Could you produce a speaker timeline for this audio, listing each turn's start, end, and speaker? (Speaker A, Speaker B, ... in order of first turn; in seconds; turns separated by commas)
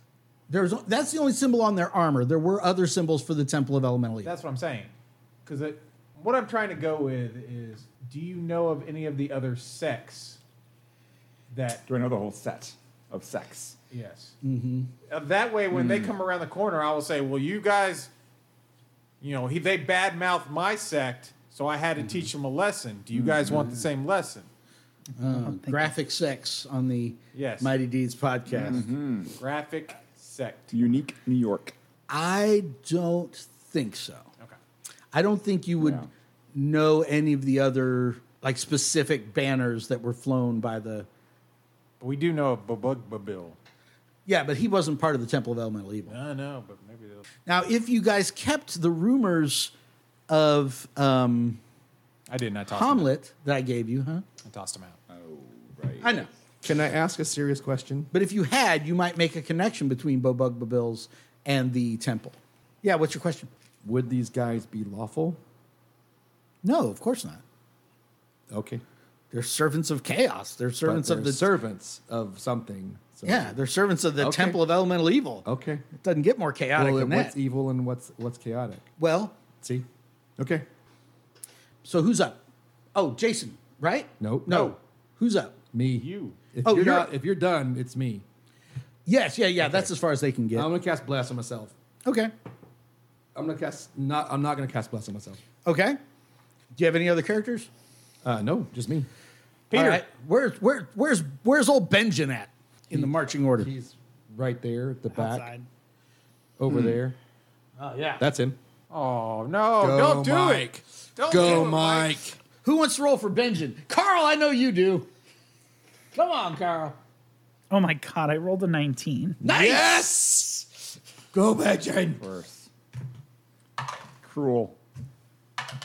Speaker A: 0.5-4.3, Speaker B: 4.2-4.9, Speaker B: 5.5-10.4, Speaker B: 11.5-11.8, Speaker C: 11.9-13.8, Speaker B: 13.9-14.3, Speaker A: 14.4-14.9, Speaker B: 15.1-18.1, Speaker C: 15.7-16.1, Speaker B: 19.2-24.5, Speaker A: 22.0-22.3, Speaker C: 23.1-23.7, Speaker A: 25.2-28.9, Speaker D: 25.2-25.9, Speaker B: 27.3-27.7, Speaker C: 28.5-29.3, Speaker B: 29.4-30.7, Speaker C: 30.7-31.8, Speaker A: 32.1-34.3, Speaker A: 35.1-41.1, Speaker C: 35.8-36.1, Speaker B: 42.0-43.6, Speaker A: 44.3-46.2, Speaker B: 46.1-47.3, Speaker A: 47.5-49.7, Speaker A: 50.3-51.6, Speaker B: 52.3-53.1, Speaker A: 52.7-54.2, Speaker B: 54.4-55.0, Speaker C: 55.1-56.3, Speaker A: 56.0-56.3, Speaker E: 56.6-58.1, Speaker A: 58.1-63.5, Speaker E: 63.8-65.4, Speaker A: 66.6-67.4, Speaker E: 68.5-68.8, Speaker A: 69.3-71.5, Speaker E: 70.8-73.6, Speaker A: 73.2-75.5, Speaker E: 74.2-74.6, Speaker E: 75.5-75.9, Speaker A: 76.0-77.4, Speaker E: 76.8-78.9, Speaker A: 79.0-79.4, Speaker E: 79.5-79.9, Speaker E: 80.4-80.6, Speaker A: 81.8-82.4, Speaker A: 82.9-85.6, Speaker E: 84.2-84.6, Speaker B: 84.5-84.8, Speaker E: 85.7-88.2, Speaker B: 86.0-86.4, Speaker A: 86.6-87.1, Speaker A: 89.1-90.7, Speaker E: 90.5-91.7, Speaker A: 92.0-92.3, Speaker E: 93.3-95.4, Speaker A: 95.6-96.0, Speaker A: 96.8-97.7, Speaker E: 98.2-99.1, Speaker B: 99.7-100.0, Speaker A: 99.7-103.7, Speaker E: 102.9-105.5, Speaker D: 105.1-105.7, Speaker E: 106.6-107.2, Speaker C: 106.7-107.0, Speaker A: 107.8-108.2, Speaker E: 108.2-108.6, Speaker B: 108.9-112.2, Speaker E: 109.8-112.4, Speaker A: 112.6-115.1, Speaker A: 116.1-117.0, Speaker D: 117.7-119.4, Speaker A: 119.4-120.2, Speaker E: 119.4-120.8, Speaker E: 121.3-122.2, Speaker C: 122.2-122.7, Speaker C: 124.2-124.8